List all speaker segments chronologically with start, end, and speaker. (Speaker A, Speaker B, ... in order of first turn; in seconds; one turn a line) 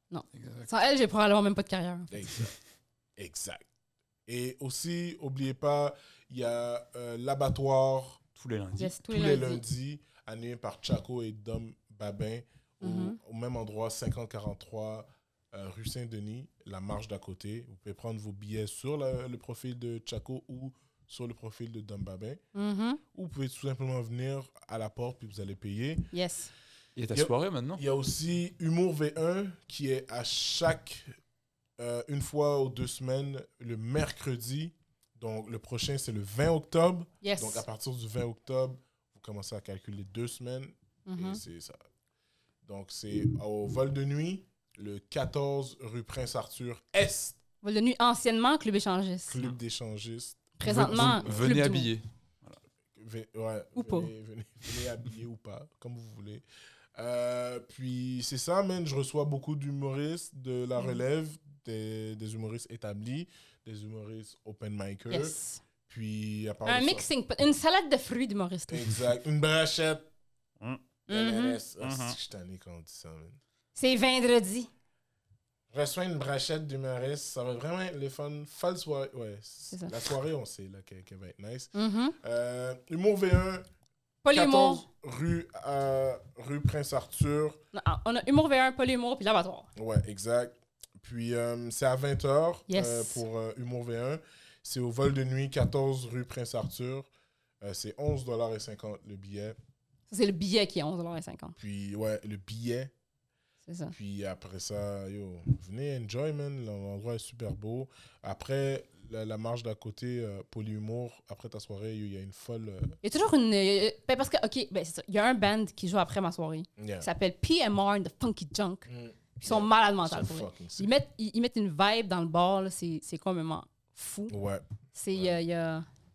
Speaker A: 0.1-2.5
Speaker B: 0.3-0.7
Speaker C: 2.1-2.5
Speaker C: 3.2-3.7
Speaker C: 4.3-8.2
Speaker B: 8.4-9.0
Speaker A: 8.8-9.6
Speaker C: 9.1-22.4
Speaker A: 12.8-13.2
Speaker A: 22.5-23.0
Speaker C: 23.1-26.1
Speaker A: 26.1-26.5
Speaker B: 27.0-27.8
Speaker C: 27.1-31.2
Speaker C: 31.8-41.8
Speaker A: 37.2-37.6
Speaker A: 41.1-41.4
Speaker C: 42.6-47.4
Speaker A: 47.6-49.4
Speaker C: 49.3-51.6
Speaker A: 50.6-51.9
Speaker B: 50.6-52.6
Speaker C: 53.0-56.4
Speaker A: 53.8-54.1
Speaker C: 57.0-67.0
Speaker A: 65.1-65.6
Speaker A: 66.7-69.0
Speaker C: 68.7-70.1
Speaker C: 71.1-73.4
Speaker A: 71.1-71.6
Speaker B: 71.8-72.2
Speaker A: 73.8-74.7
Speaker C: 75.7-83.7
Speaker A: 79.7-80.0
Speaker A: 81.7-82.2
Speaker A: 84.2-84.9
Speaker C: 84.3-87.6
Speaker A: 87.7-89.7
Speaker C: 89.8-97.1
Speaker A: 92.7-93.2
Speaker C: 97.6-99.6
Speaker A: 100.1-101.6
Speaker C: 101.6-102.9
Speaker A: 103.7-103.9
Speaker C: 103.9-113.0
Speaker A: 113.0-124.3
Speaker C: 116.8-117.1
Speaker C: 118.9-120.9
Speaker C: 124.3-125.4
Speaker A: 124.9-125.9